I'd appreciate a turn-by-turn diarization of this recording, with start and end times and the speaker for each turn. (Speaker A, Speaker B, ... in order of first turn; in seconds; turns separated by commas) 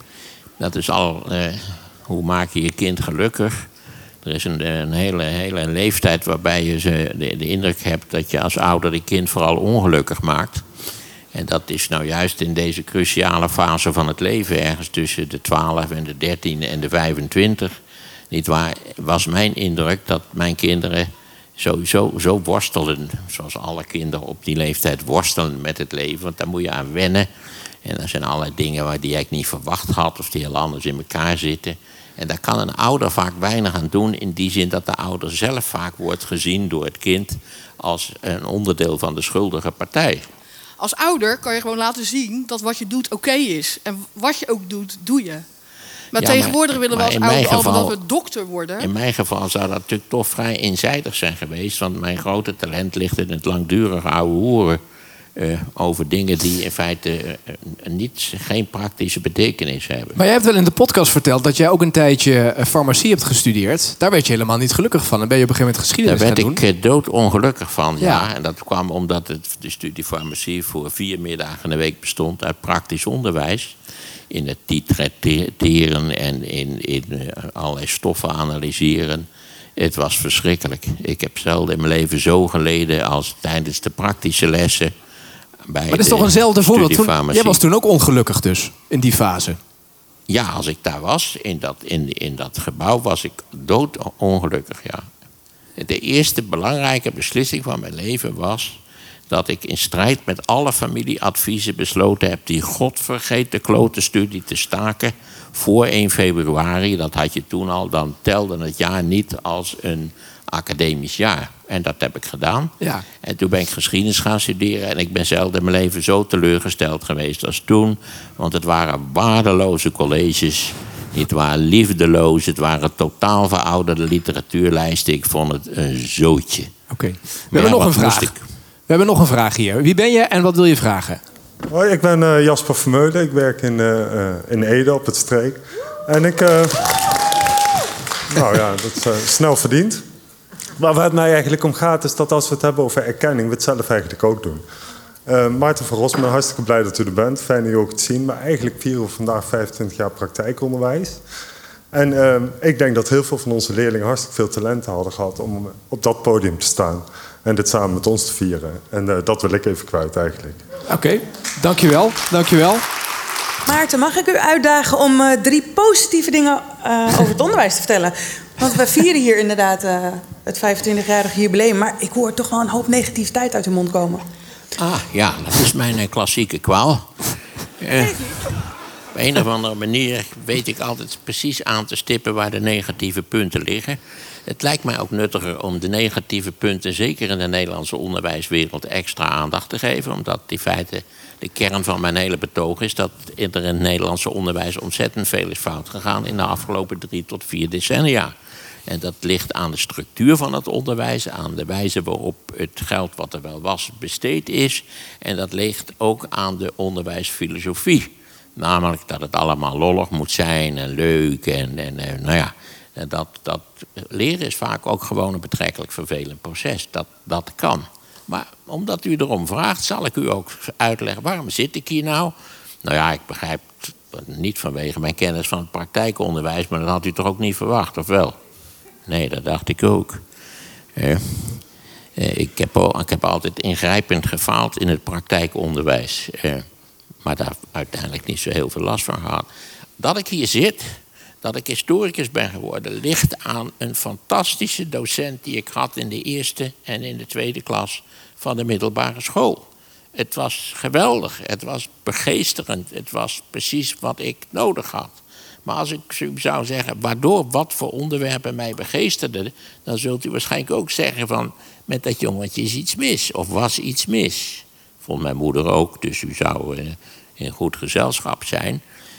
Speaker A: 0.6-3.7, Speaker A: 4.2-10.7, Speaker A: 11.3-17.7, Speaker A: 18.3-27.3, Speaker A: 27.8-40.3, Speaker B: 40.8-45.4, Speaker B: 46.1-48.9, Speaker A: 46.2-48.0, Speaker A: 48.8-54.8, Speaker A: 55.4-60.2, Speaker C: 60.1-66.6, Speaker A: 66.0-73.8, Speaker C: 68.0-68.3, Speaker A: 74.3-84.9, Speaker A: 85.7-87.6, Speaker C: 85.9-89.6, Speaker A: 90.3-95.1, Speaker A: 95.8-98.8, Speaker A: 99.3-126.7, Speaker C: 126.9-128.3, Speaker A: 127.5-128.4, Speaker C: 128.9-131.2, Speaker D: 131.7-137.0, Speaker D: 138.3-140.0, Speaker D: 140.8-144.6, Speaker D: 145.2-151.2, Speaker D: 151.9-160.6, Speaker C: 160.9-162.8, Speaker E: 163.7-174.2, Speaker A: 174.8-177.2, Speaker A: 177.8-178.6, Speaker A: 179.1-198.3, Speaker A: 198.9-228.3, Speaker A: 229.1-230.2, Speaker A: 230.9-231.6, Speaker A: 232.2-236.6, Speaker A: 237.2-239.5, Speaker A: 240.0-268.8